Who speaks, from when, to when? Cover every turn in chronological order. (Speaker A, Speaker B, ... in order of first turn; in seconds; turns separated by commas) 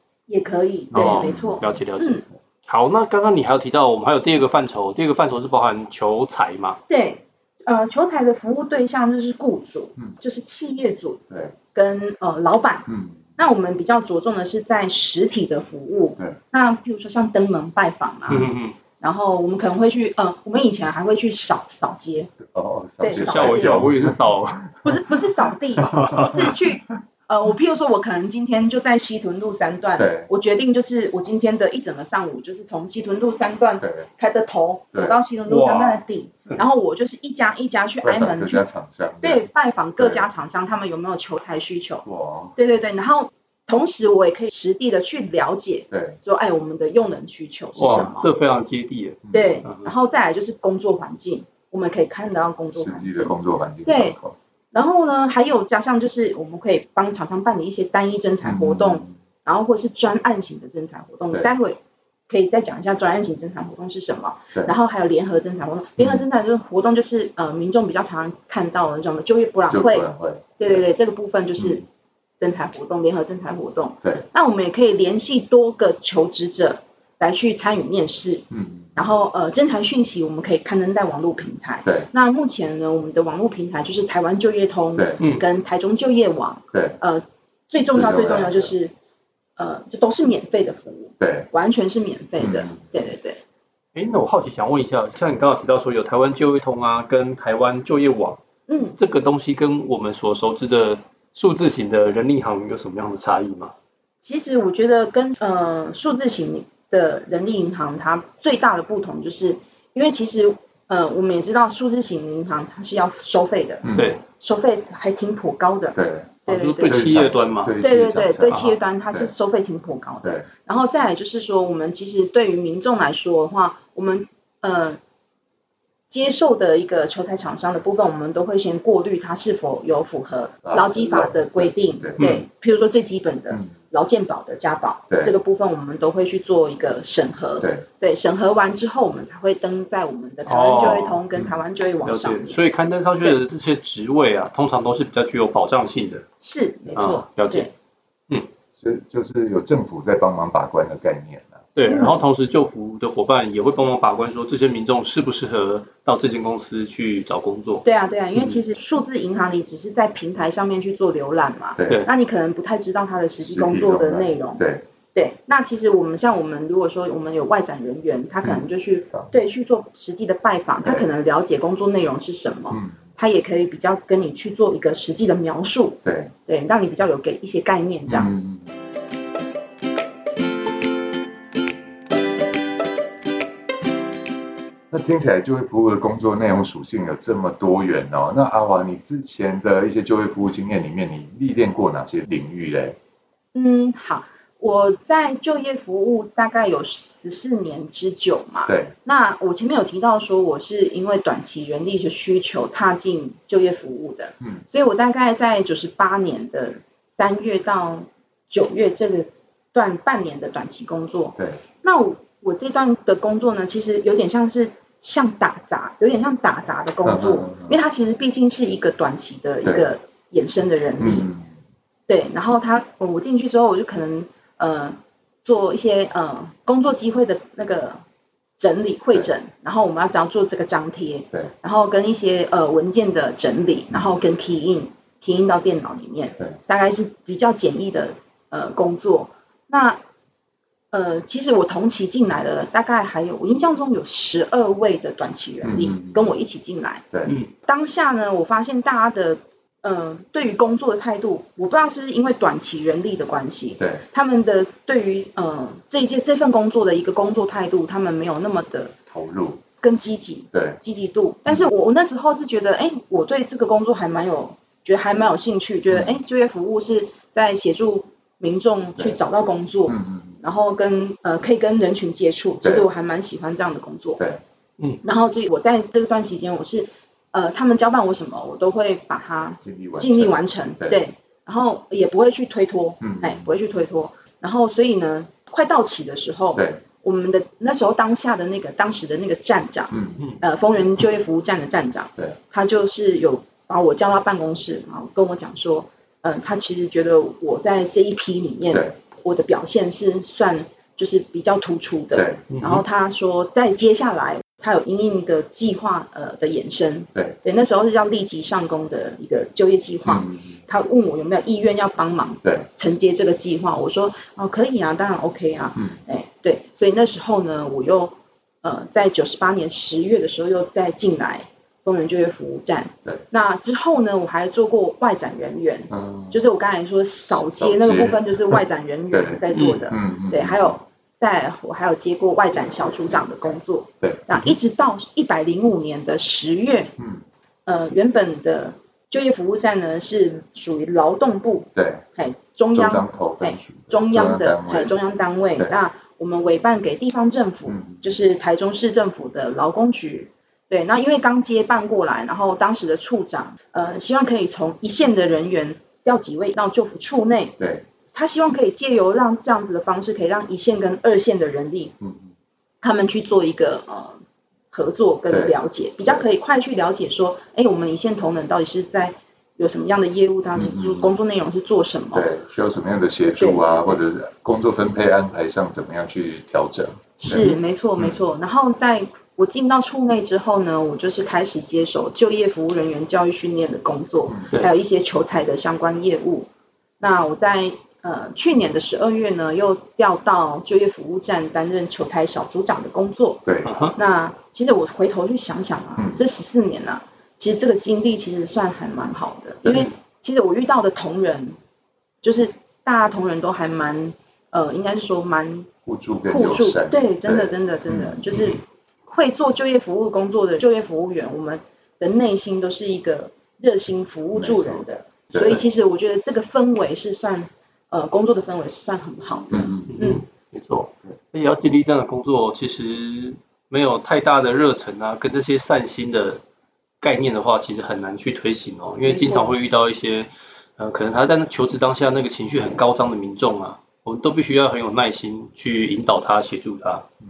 Speaker A: 0.3-2.2, Speaker B: 0.9-1.8, Speaker C: 0.9-6.8, Speaker A: 6.9-22.3, Speaker B: 12.9-13.3, Speaker C: 18.3-18.8, Speaker B: 22.4-24.6, Speaker A: 23.0-23.8, Speaker C: 23.1-24.7, Speaker A: 24.8-38.6, Speaker C: 25.9-26.3, Speaker B: 26.0-26.5, Speaker B: 30.0-30.3, Speaker B: 33.8-34.0, Speaker C: 35.5-36.0, Speaker B: 38.0-39.5, Speaker A: 39.2-48.3, Speaker B: 40.0-40.2, Speaker B: 42.0-42.5, Speaker B: 45.9-46.2, Speaker B: 47.8-48.1, Speaker C: 47.8-49.9, Speaker B: 49.2-49.6, Speaker A: 49.3-54.1, Speaker B: 52.8-54.4, Speaker A: 54.7-61.8, Speaker B: 58.4-59.1, Speaker A: 62.3-71.8, Speaker B: 66.0-66.2, Speaker B: 69.7-70.8, Speaker A: 72.4-88.9, Speaker B: 78.5-79.0, Speaker B: 87.9-88.7, Speaker A: 89.6-93.4, Speaker B: 91.2-91.5, Speaker B: 92.4-92.8, Speaker C: 93.9-98.4, Speaker A: 98.7-99.0, Speaker C: 99.0-103.7, Speaker A: 104.2-117.0, Speaker B: 113.8-114.2, Speaker C: 113.9-114.2, Speaker B: 115.9-119.3, Speaker C: 116.5-117.8, Speaker A: 117.8-125.0, Speaker C: 118.5-118.8, Speaker A: 126.1-142.6, Speaker B: 130.6-132.3, Speaker C: 140.4-141.2, Speaker B: 140.8-141.6, Speaker C: 142.0-146.2, Speaker A: 146.4-147.7, Speaker C: 146.9-147.7, Speaker B: 148.7-151.6, Speaker C: 151.8-157.8, Speaker A: 151.8-152.2, Speaker A: 157.8-164.6, Speaker B: 161.8-162.0, Speaker B: 163.4-164.8, Speaker A: 165.1-178.3, Speaker B: 168.4-169.3, Speaker B: 172.7-173.0, Speaker B: 176.0-176.3, Speaker B: 178.1-178.7, Speaker B: 184.9-193.0, Speaker A: 193.5-221.3, Speaker B: 198.7-198.9, Speaker B: 217.0-217.7, Speaker B: 221.0-221.5, Speaker A: 222.1-228.0, Speaker A: 228.6-240.0, Speaker A: 240.9-247.0, Speaker B: 245.6-246.3, Speaker A: 247.6-258.9, Speaker B: 259.1-259.6, Speaker A: 259.8-274.2, Speaker B: 260.5-260.8, Speaker B: 265.9-266.2, Speaker B: 269.9-270.4, Speaker A: 275.0-336.9, Speaker B: 279.6-281.0, Speaker B: 283.0-283.5, Speaker B: 286.5-286.8, Speaker B: 289.9-290.2, Speaker B: 302.1-302.4, Speaker C: 302.5-302.8, Speaker B: 310.1-310.6, Speaker B: 325.9-326.4, Speaker B: 327.6-328.6, Speaker B: 329.1-330.7, Speaker C: 329.5-329.9, Speaker B: 334.0-334.5, Speaker B: 337.0-337.2, Speaker A: 337.6-357.6, Speaker B: 341.7-342.0, Speaker B: 342.7-344.9, Speaker B: 347.7-348.0, Speaker B: 357.6-357.8, Speaker A: 358.1-361.9, Speaker B: 362.0-362.3, Speaker A: 362.8-364.2, Speaker A: 364.7-372.3, Speaker B: 365.3-366.2, Speaker B: 370.5-371.1, Speaker B: 372.1-378.2, Speaker A: 373.4-374.0, Speaker A: 377.2-386.5, Speaker A: 387.0-393.4, Speaker B: 393.4-393.7, Speaker C: 393.6-393.9, Speaker A: 393.9-401.6, Speaker A: 402.2-405.7, Speaker B: 405.9-408.2, Speaker A: 406.3-420.2, Speaker B: 414.3-415.6, Speaker B: 419.5-419.9, Speaker C: 419.9-426.4, Speaker C: 427.0-437.0, Speaker A: 429.0-429.5